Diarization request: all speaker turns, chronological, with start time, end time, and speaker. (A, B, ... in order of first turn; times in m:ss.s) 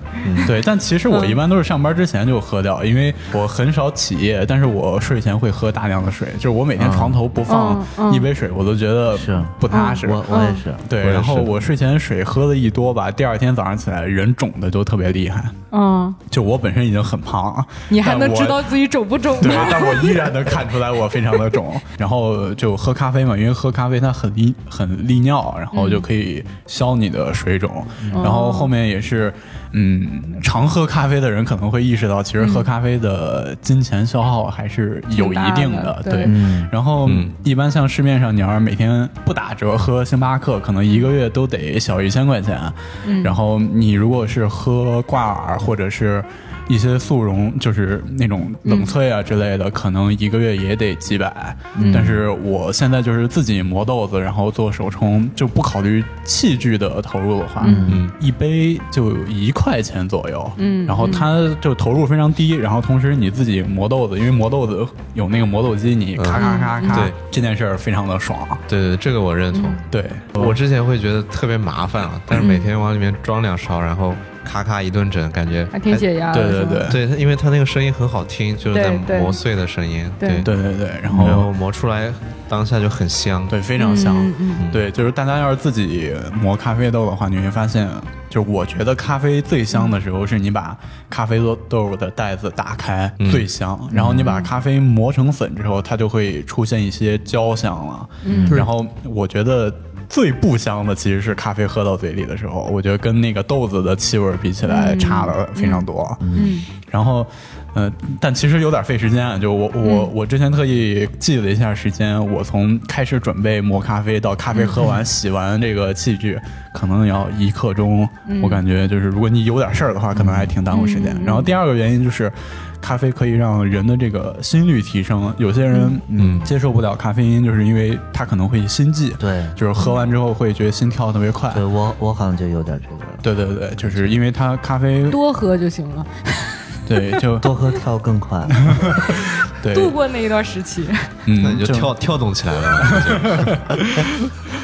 0:00.4-0:10.3 A
0:01.0-0:01.4 B
0:06.8-0:07.2 C
0:07.5-0:08.3 B
0:09.1-0:10.9 C
0:09.7-0:10.6 B
0:10.8-0:15.6 A
0:11.0-0:11.5 D
0:15.7-0:16.2 B
0:16.3-0:18.7 A
0:17.9-0:20.5 B
0:19.4-1:08.6 A
0:25.7-0:26.1 B
0:28.1-0:28.7 B
0:32.4-0:32.7 B
0:35.1-0:36.3 B
0:36.2-0:36.7 C
0:37.0-0:37.3 D
0:43.0-0:43.4 B
0:48.6-0:49.0 B
0:51.8-0:52.2 C
0:51.8-0:52.1 B
0:57.6-0:57.9 B
0:57.6-0:58.0 C
0:57.9-0:58.2 D
1:00.6-1:01.3 B
1:06.2-1:07.2 D
1:06.3-1:07.1 B
1:08.7-1:09.8 D
1:09.5-1:09.8 B
1:09.9-1:10.6 A
1:10.4-1:15.7 D
1:12.3-1:12.7 B
1:15.7-1:16.9 B
1:15.9-1:17.0 A
1:16.9-1:20.5 D
1:18.7-1:19.4 B
1:20.2-1:20.5 B
1:20.4-1:21.5 A
1:21.1-1:23.6 D
1:21.1-1:21.4 C
1:23.5-2:11.6 A
1:23.8-1:24.6 B
1:24.6-1:24.8 D
1:29.7-1:30.0 B
1:33.2-1:33.5 D
1:33.9-1:34.3 C
1:34.2-1:34.5 B
1:38.2-1:38.6 B
1:38.3-1:38.7 C
1:44.6-1:46.7 B
1:46.2-1:46.5 C
1:49.8-1:50.1 B
1:54.5-1:55.0 B
1:58.3-1:58.6 B
2:00.1-2:00.5 C
2:00.7-2:01.5 B
2:05.7-2:06.0 B
2:06.1-2:06.5 C
2:06.2-2:06.5 D
2:09.2-2:09.6 C
2:09.8-2:10.1 B
2:11.5-2:13.2 C
2:13.2-2:15.2 A
2:15.1-2:17.2 B
2:16.9-2:17.5 A
2:17.4-2:18.9 C
2:18.6-2:20.0 A
2:19.7-2:21.1 B
2:21.3-2:21.9 A
2:21.4-2:23.8 D
2:22.8-2:24.3 A